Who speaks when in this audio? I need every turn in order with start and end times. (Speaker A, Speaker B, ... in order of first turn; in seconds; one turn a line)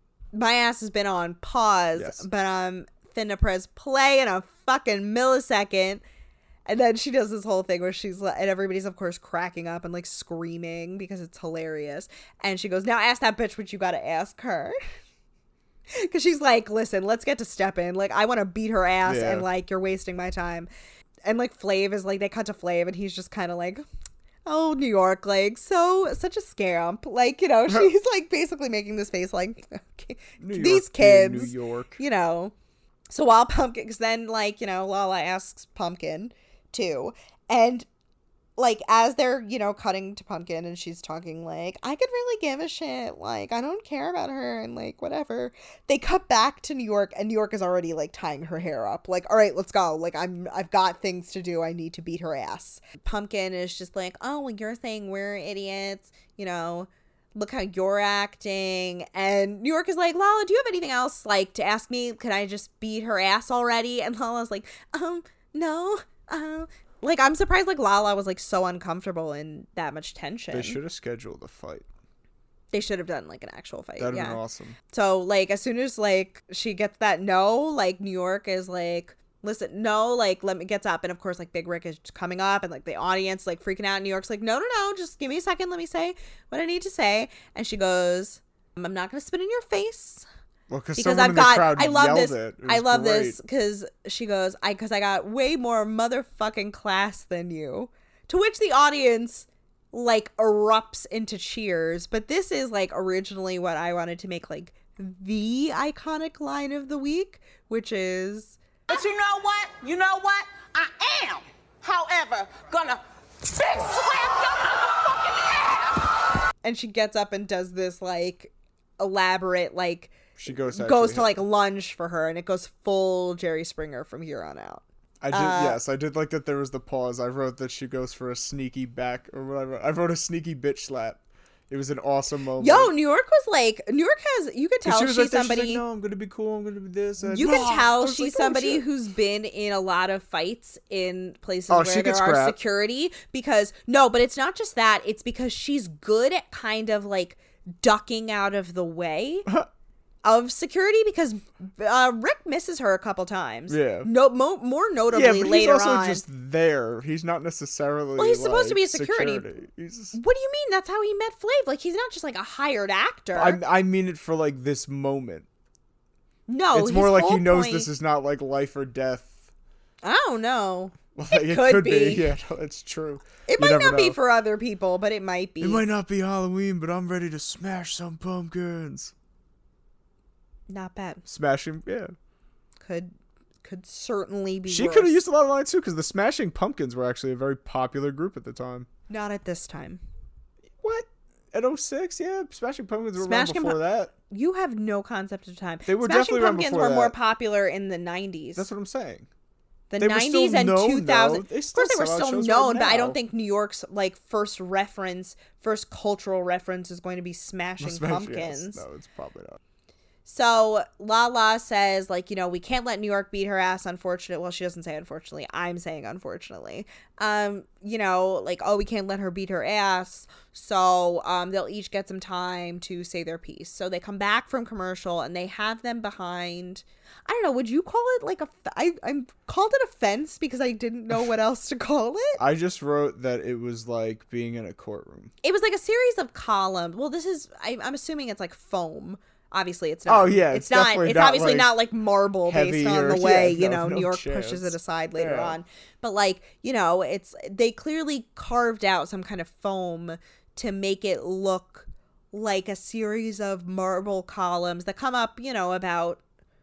Speaker A: 0.3-6.0
Speaker B: 2.0-2.2
Speaker A: 6.7-14.8
Speaker A: 15.9-20.7
Speaker B: 19.1-19.5
Speaker A: 21.2-23.9
Speaker A: 24.5-32.5
Speaker B: 30.4-32.0
Speaker A: 33.1-37.9
Speaker A: 38.6-70.8
Speaker B: 70.5-71.9
Speaker A: 72.7-90.3
Speaker B: 74.0-74.8
Speaker B: 90.7-93.4
Speaker A: 91.0-108.6
Speaker C: 108.9-116.1
Speaker A: 116.6-125.8
Speaker B: 120.4-121.4
Speaker B: 125.2-132.9
Speaker A: 132.6-135.8
Speaker B: 134.8-138.8
Speaker A: 137.3-149.5
Speaker B: 141.7-142.6
Speaker A: 150.2-156.2
Speaker B: 153.7-154.1
Speaker B: 155.1-160.2
Speaker A: 158.2-159.5
Speaker A: 160.1-163.6
Speaker B: 163.3-165.5
Speaker A: 166.5-167.9
Speaker B: 166.7-169.5
Speaker A: 170.0-172.3
Speaker B: 171.2-174.2
Speaker A: 173.5-175.8
Speaker B: 175.6-179.1
Speaker A: 180.7-181.2
Speaker B: 181.3-182.1
Speaker A: 182.8-183.1
Speaker A: 183.6-185.2
Speaker B: 184.7-188.9
Speaker A: 189.1-190.0
Speaker B: 190.8-194.1
Speaker A: 193.2-198.7
Speaker B: 195.9-197.1
Speaker B: 198.6-199.3
Speaker A: 199.9-208.8
Speaker B: 200.0-203.2
Speaker B: 207.8-209.6
Speaker A: 210.3-232.4
Speaker B: 232.4-235.3
Speaker A: 235.4-256.2
Speaker B: 240.1-241.7
Speaker B: 242.5-245.6